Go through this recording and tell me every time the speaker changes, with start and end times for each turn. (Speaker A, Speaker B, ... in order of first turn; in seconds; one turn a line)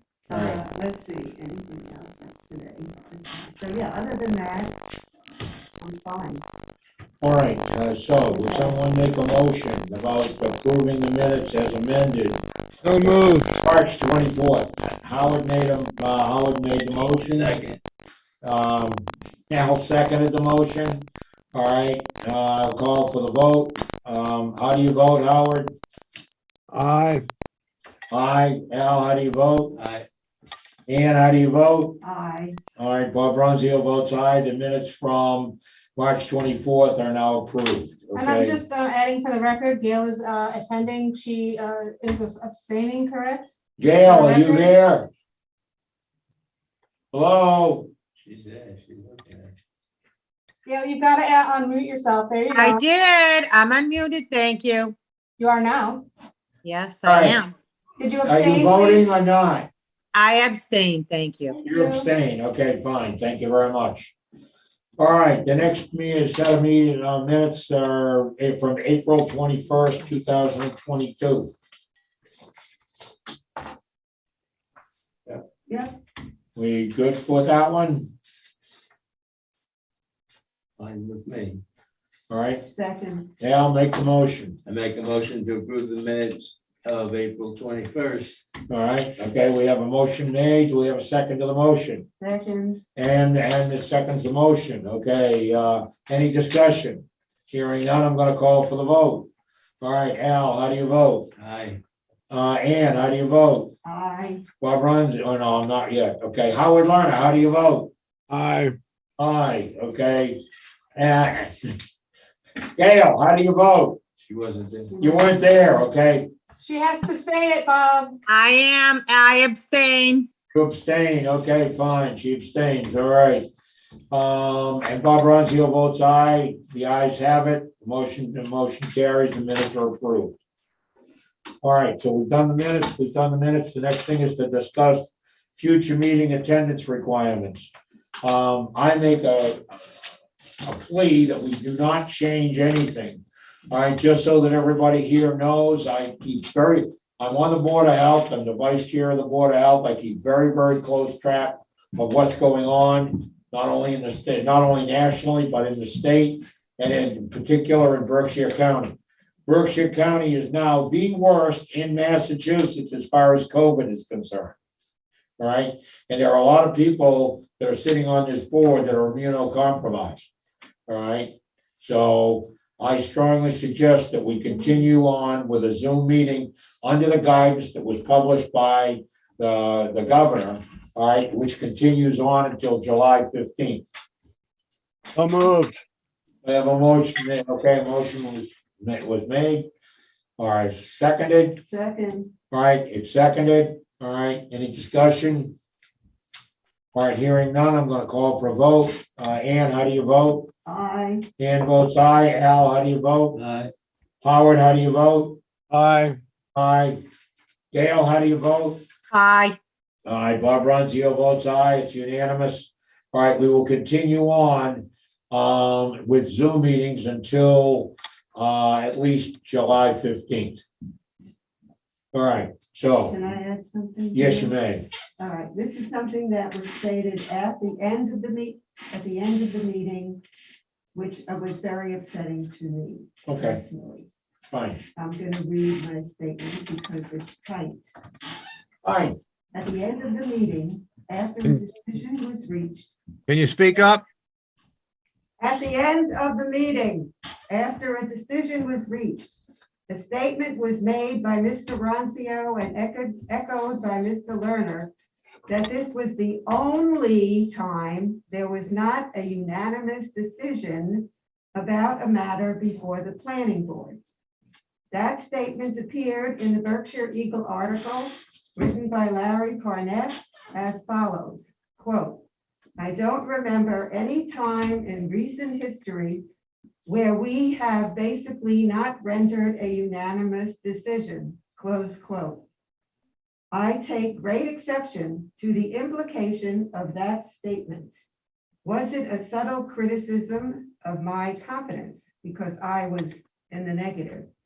Speaker A: 0.3-4.7
Speaker B: 0.3-0.6
Speaker A: 5.8-6.4
Speaker B: 7.2-12.4
Speaker A: 8.5-8.8
Speaker C: 12.8-13.6
Speaker B: 13.0-17.6
Speaker D: 17.3-17.8
Speaker B: 18.4-25.7
Speaker C: 26.7-27.2
Speaker B: 28.1-29.8
Speaker D: 29.8-30.0
Speaker B: 30.9-32.0
Speaker A: 32.0-32.6
Speaker B: 32.8-38.6
Speaker E: 38.1-43.5
Speaker B: 43.8-45.1
Speaker E: 44.0-44.7
Speaker B: 47.1-47.9
Speaker D: 48.2-49.5
Speaker E: 50.6-52.8
Speaker F: 52.5-54.9
Speaker E: 55.4-56.0
Speaker F: 56.6-57.5
Speaker B: 57.0-57.4
Speaker E: 58.0-59.2
Speaker B: 58.2-59.7
Speaker F: 60.1-61.6
Speaker B: 61.6-64.1
Speaker B: 65.0-71.5
Speaker A: 75.7-75.9
Speaker B: 76.5-78.1
Speaker D: 80.8-81.6
Speaker B: 82.3-82.6
Speaker A: 82.7-83.3
Speaker B: 83.4-84.6
Speaker D: 84.7-88.4
Speaker B: 88.7-92.0
Speaker A: 92.2-92.8
Speaker B: 93.0-99.3
Speaker B: 99.8-101.3
Speaker D: 101.4-101.8
Speaker B: 102.3-103.7
Speaker A: 103.8-104.4
Speaker B: 104.6-107.9
Speaker C: 108.3-108.8
Speaker B: 109.2-110.4
Speaker B: 111.0-111.7
Speaker B: 112.8-114.0
Speaker D: 114.2-115.0
Speaker B: 115.0-116.3
Speaker E: 116.6-118.2
Speaker F: 118.3-120.3
Speaker B: 120.5-123.5
Speaker B: 124.1-130.4
Speaker B: 131.6-137.7
Speaker B: 138.2-139.6
Speaker B: 140.6-158.9
Speaker B: 159.5-164.6
Speaker B: 165.4-170.3
Speaker B: 170.9-183.8
Speaker C: 185.1-185.8
Speaker B: 186.4-189.7
Speaker B: 190.4-191.6
Speaker A: 191.6-192.3
Speaker B: 192.5-195.5
Speaker B: 196.9-200.5
Speaker A: 200.7-201.2
Speaker B: 201.4-203.4
Speaker D: 203.3-203.7
Speaker B: 204.2-205.4
Speaker C: 205.7-206.2
Speaker B: 206.5-207.0
Speaker B: 207.7-208.8
Speaker F: 209.1-209.6
Speaker B: 210.0-220.7
Speaker B: 222.1-223.2
Speaker A: 223.0-224.6
Speaker B: 224.1-224.9
Speaker A: 225.2-230.2
Speaker A: 230.9-234.1
Speaker B: 233.2-233.6
Speaker B: 234.5-234.8
Speaker A: 234.9-237.9
Speaker B: 238.8-239.2
Speaker A: 239.5-242.9
Speaker C: 243.3-244.0
Speaker A: 245.4-249.3
Speaker A: 249.9-254.9
Speaker A: 255.5-264.0
Speaker A: 264.9-272.2
Speaker A: 272.8-276.2
Speaker A: 276.8-282.4
Speaker A: 283.5-288.0
Speaker A: 288.6-294.3